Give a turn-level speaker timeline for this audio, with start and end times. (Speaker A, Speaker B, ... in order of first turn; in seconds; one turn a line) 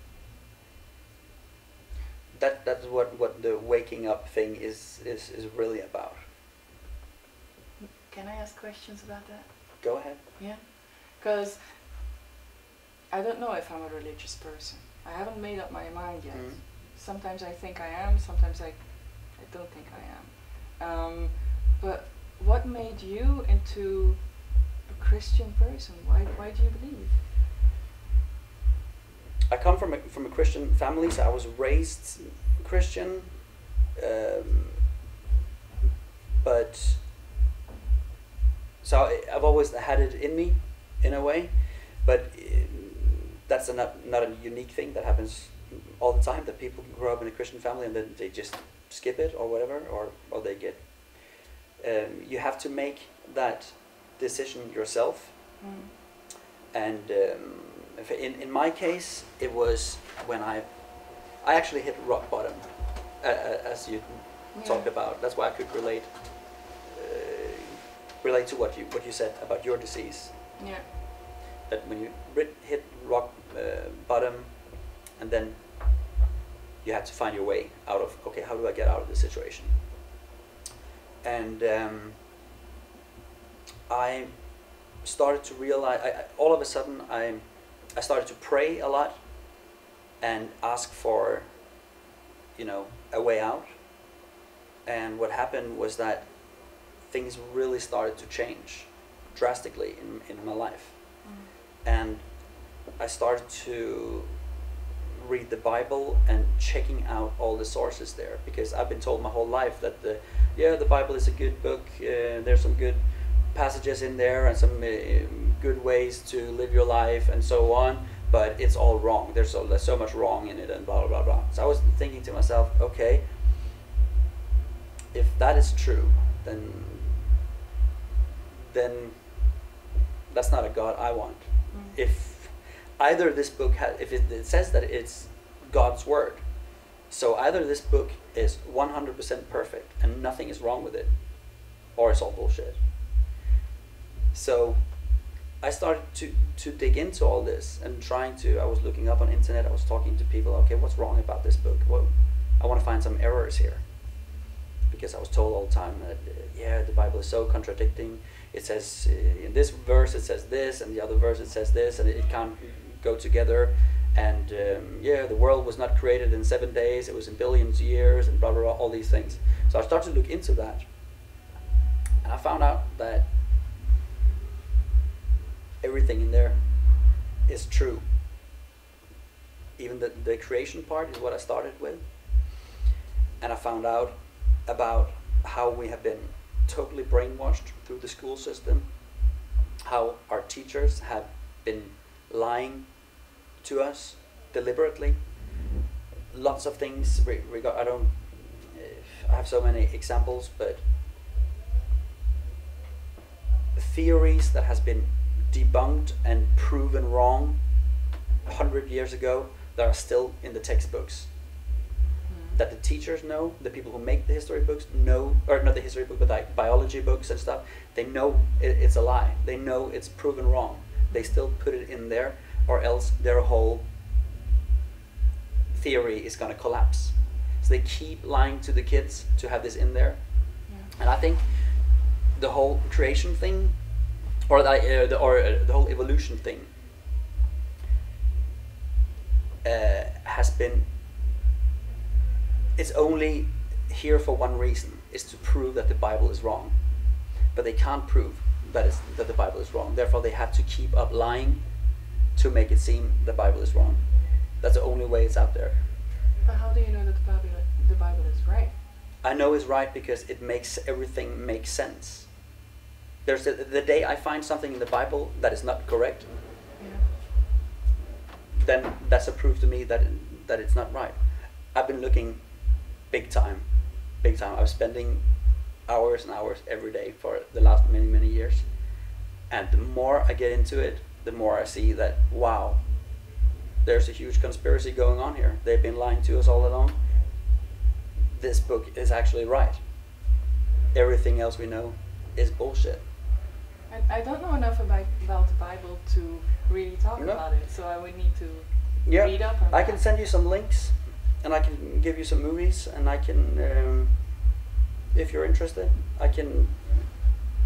Speaker A: 2.3-6.2
Speaker B: 7.8-11.9
Speaker A: 9.8-10.2
Speaker B: 13.1-27.2
Speaker A: 16.3-16.6
Speaker A: 29.5-34.9
Speaker A: 36.4-37.0
Speaker A: 38.8-55.6
Speaker B: 55.6-55.9
Speaker A: 56.7-70.6
Speaker B: 64.5-64.9
Speaker B: 70.6-70.9
Speaker A: 71.7-76.2
Speaker A: 76.8-79.8
Speaker A: 81.2-82.2
Speaker A: 83.9-91.5
Speaker A: 92.5-93.7
Speaker A: 94.8-104.4
Speaker B: 101.2-101.5
Speaker A: 105.2-123.3
Speaker A: 125.1-127.3
Speaker A: 128.6-129.6
Speaker A: 130.3-142.8
Speaker B: 131.7-132.0
Speaker A: 144.3-153.8
Speaker A: 154.9-170.9
Speaker A: 172.2-173.3
Speaker A: 175.8-178.1
Speaker A: 179.8-182.6
Speaker A: 183.4-189.3
Speaker A: 189.8-195.4
Speaker A: 196.3-200.8
Speaker A: 203.8-207.6
Speaker A: 208.4-211.3
Speaker B: 212.3-212.6
Speaker A: 212.5-223.8
Speaker B: 221.1-221.4
Speaker A: 225.7-233.9
Speaker B: 230.7-230.9
Speaker A: 234.5-236.7
Speaker A: 239.6-240.9
Speaker A: 242.8-246.8
Speaker A: 247.4-255.8
Speaker B: 256.4-258.8
Speaker A: 259.2-262.5
Speaker A: 263.2-266.4
Speaker B: 266.8-267.1
Speaker A: 268.6-278.7
Speaker A: 279.5-283.0
Speaker A: 283.8-287.0
Speaker A: 288.2-289.8
Speaker A: 290.9-293.0
Speaker B: 293.9-300.1
Speaker A: 297.2-297.4
Speaker A: 299.1-304.4
Speaker A: 305.1-307.1